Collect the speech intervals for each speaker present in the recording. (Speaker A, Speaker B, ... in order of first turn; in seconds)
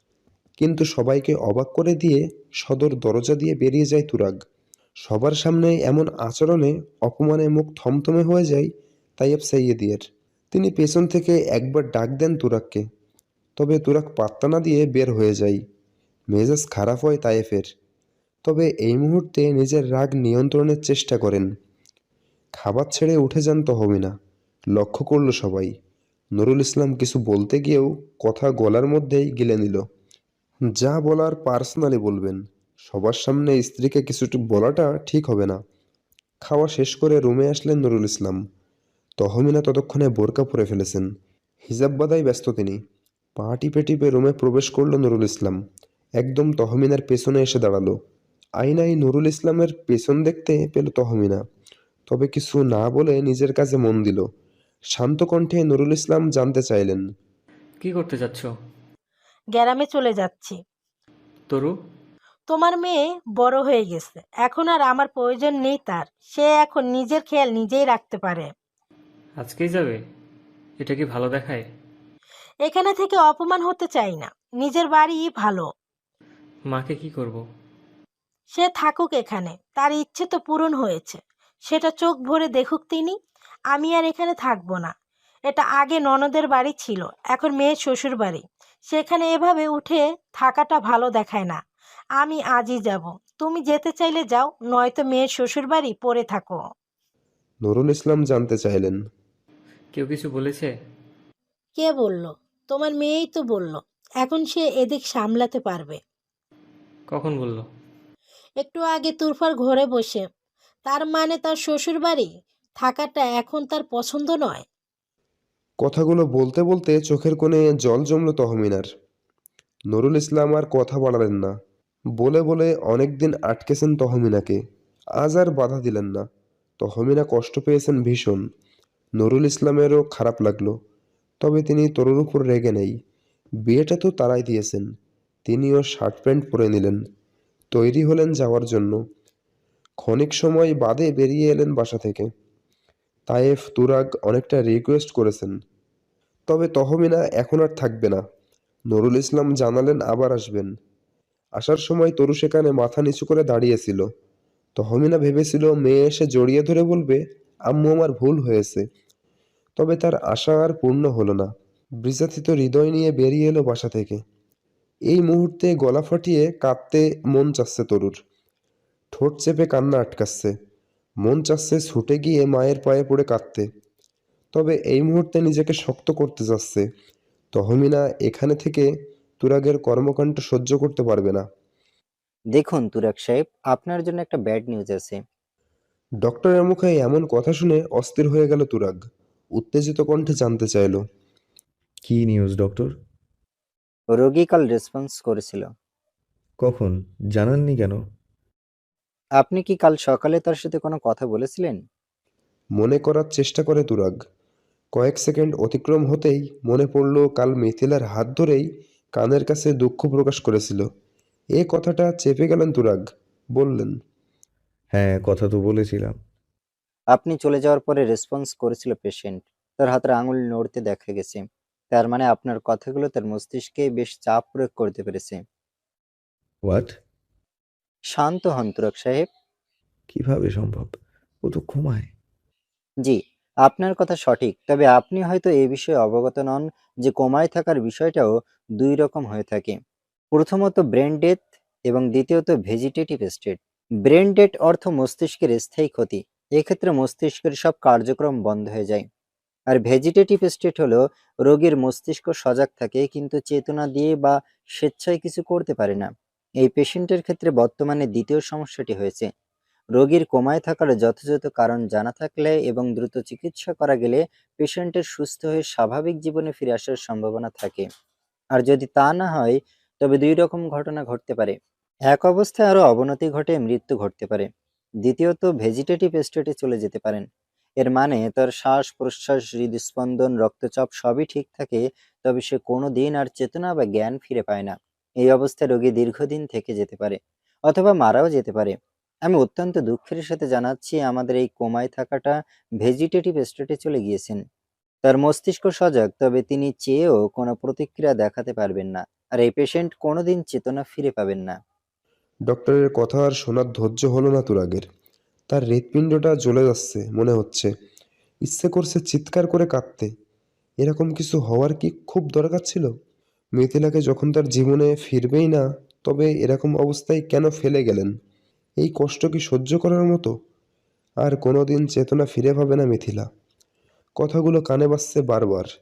Speaker A: 0.6-4.4, 5.0-12.8, 13.6-15.6, 16.3-17.6, 18.4-21.5, 22.6-24.1, 24.7-25.7, 26.4-29.8, 30.8-35.6, 36.4-38.4, 39.2-41.1, 41.6-42.8, 43.4-45.6, 46.2-47.9, 48.6-51.4, 52.1-54.2, 54.9-57.0, 97.6-99.0, 115.8-118.8, 119.9-121.5, 122.2-124.6, 125.2-126.2, 126.8-128.4, 129.2-130.7, 131.4-132.9, 133.6-134.9, 135.4-137.0, 137.7-139.0, 140.0-142.2, 143.3-145.5, 146.5-148.2, 148.9-150.7, 151.6-154.0, 154.8-158.8, 159.8-161.5, 162.0-164.2, 165.1-168.2, 169.1-170.5, 171.2-173.7, 174.5-176.8, 177.5-178.9, 179.4-181.4, 186.2-189.0, 189.6-191.0, 202.8-204.1, 204.9-208.6, 209.2-210.8, 211.6-213.0, 213.6-213.9, 302.5-304.8, 305.5-307.7, 308.4-310.1, 310.8-312.9, 313.6-318.1, 318.8-320.3, 321.2-323.3, 324.2-325.7
Speaker B: 57.8-58.5, 69.4-70.0, 70.8-71.7, 76.7-77.4, 99.9-100.7, 107.1-107.7
Speaker C: 59.5-60.6, 62.5-68.5, 72.6-75.7, 78.5-83.2, 83.7-84.9, 85.5-91.6, 92.2-96.6, 101.8-106.0, 108.6-110.2, 110.8-112.3, 112.8-114.6
Speaker D: 182.5-185.2, 194.1-195.7, 199.4-201.8, 217.1-225.4, 228.1-229.3, 233.0-239.8, 240.3-249.1, 249.7-259.3, 260.0-267.9, 268.5-271.6, 272.1-274.5, 275.0-277.2, 277.8-288.7, 289.3-294.4, 295.0-301.5
Speaker E: 192.0-192.9, 196.6-198.0, 214.9-216.2, 226.6-226.9, 230.1-232.1